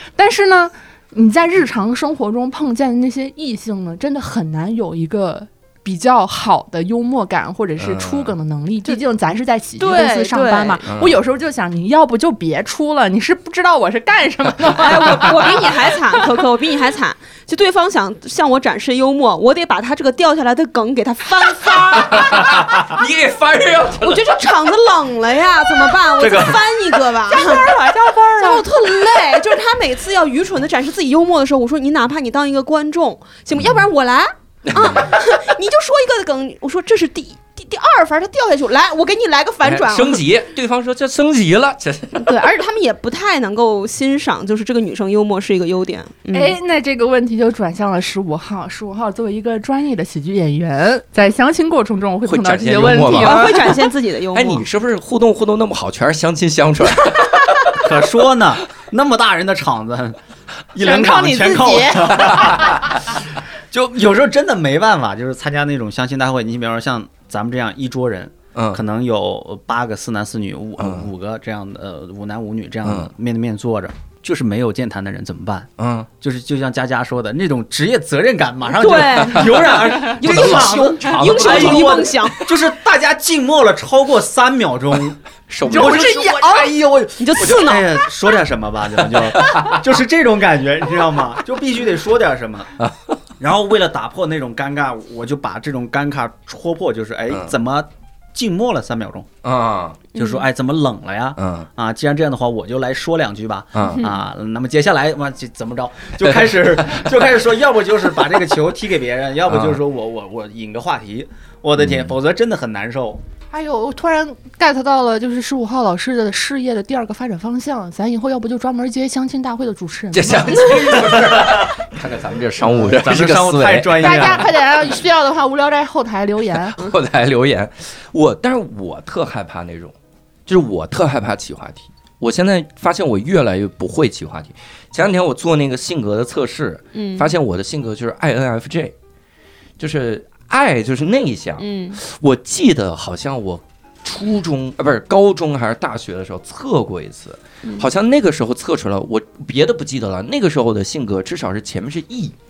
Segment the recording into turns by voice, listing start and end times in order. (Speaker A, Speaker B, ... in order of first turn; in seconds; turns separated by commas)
Speaker A: 0.1-16.2, Speaker B: 7.8-8.3, Speaker C: 9.8-10.8, Speaker B: 10.9-11.2, Speaker C: 14.8-22.9, Speaker B: 21.8-24.4, Speaker C: 24.0-40.2, Speaker D: 26.2-27.0, Speaker A: 27.3-28.6, Speaker B: 34.6-35.2, Speaker B: 39.6-42.5, Speaker C: 42.2-46.5, Speaker A: 46.3-53.6, Speaker B: 52.2-53.8, Speaker C: 53.1-54.6, Speaker B: 54.3-58.1, Speaker D: 57.8-60.2, Speaker D: 60.7-63.2, Speaker A: 60.8-62.1, Speaker B: 62.1-62.8, Speaker D: 63.7-75.7, Speaker B: 68.5-68.8, Speaker B: 70.8-71.1, Speaker B: 72.8-73.1, Speaker B: 75.8-76.1, Speaker D: 76.2-92.7, Speaker C: 78.7-82.5, Speaker B: 79.3-82.3, Speaker B: 85.5-86.2, Speaker C: 85.7-88.1, Speaker B: 89.2-89.8, Speaker B: 92.8-93.2, Speaker D: 93.4-99.3, Speaker B: 99.4-100.0, Speaker C: 100.1-100.5, Speaker D: 100.1-113.2, Speaker B: 101.4-101.7, Speaker B: 103.7-104.0, Speaker C: 103.9-104.2, Speaker B: 106.2-107.3, Speaker B: 109.5-109.8, Speaker B: 111.8-112.1, Speaker A: 113.5-121.1, Speaker B: 120.1-124.5, Speaker D: 122.6-124.5, Speaker A: 124.0-126.8, Speaker B: 126.5-129.9, Speaker B: 130.5-138.9, Speaker C: 136.9-137.3, Speaker B: 139.8-152.3, Speaker C: 141.6-142.0